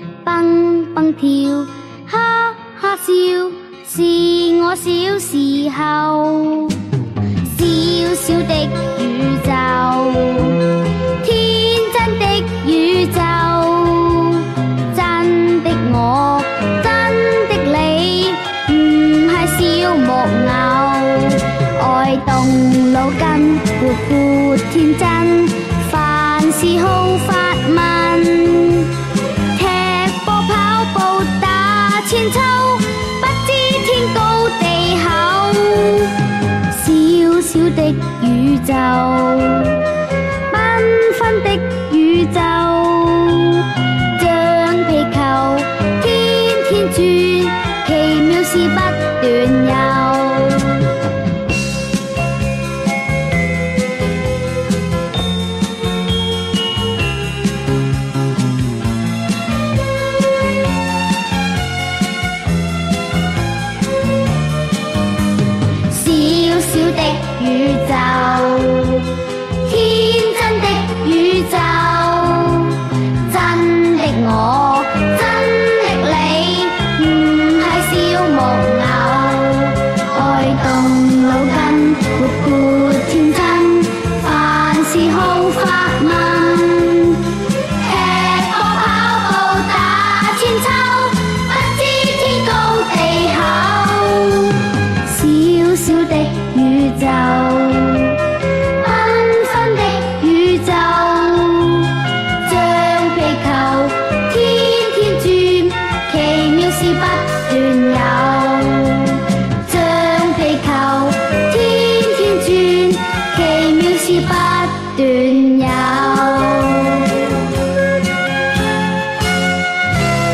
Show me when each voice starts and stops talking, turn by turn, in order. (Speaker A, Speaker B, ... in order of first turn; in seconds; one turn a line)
Speaker A: 0.2-6.8
Speaker A: 7.4-28.9
Speaker A: 29.5-39.9
Speaker A: 40.5-51.0
Speaker A: 65.9-117.4